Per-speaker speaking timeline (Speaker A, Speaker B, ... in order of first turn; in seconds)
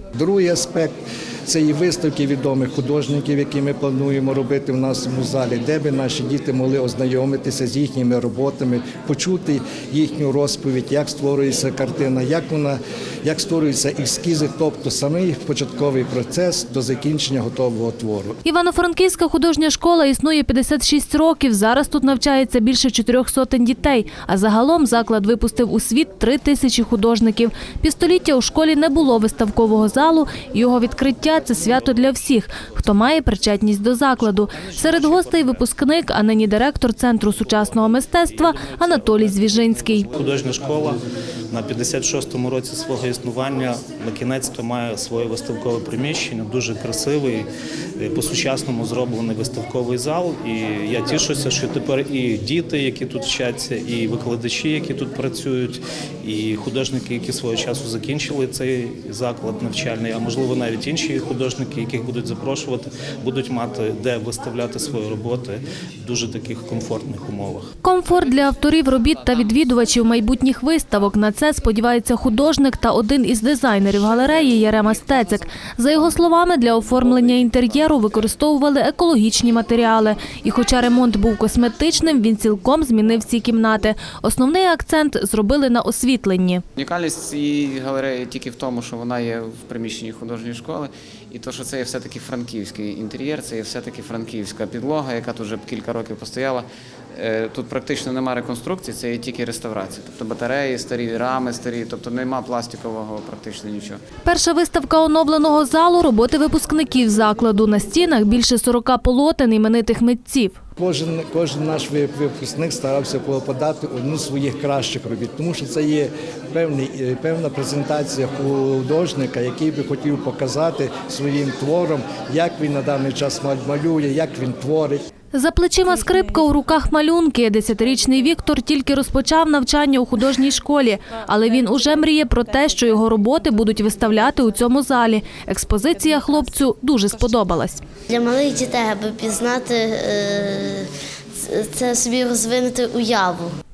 Speaker A: 0.2-0.9, 1.4-18.4, 110.8-125.0
Speaker B: 18.4-40.1, 67.8-86.6, 104.2-110.6, 125.3-137.8
Speaker C: 34.1-35.7, 37.3-47.5, 48.0-67.7
Speaker D: 86.8-104.0
Speaker E: 138.1-143.5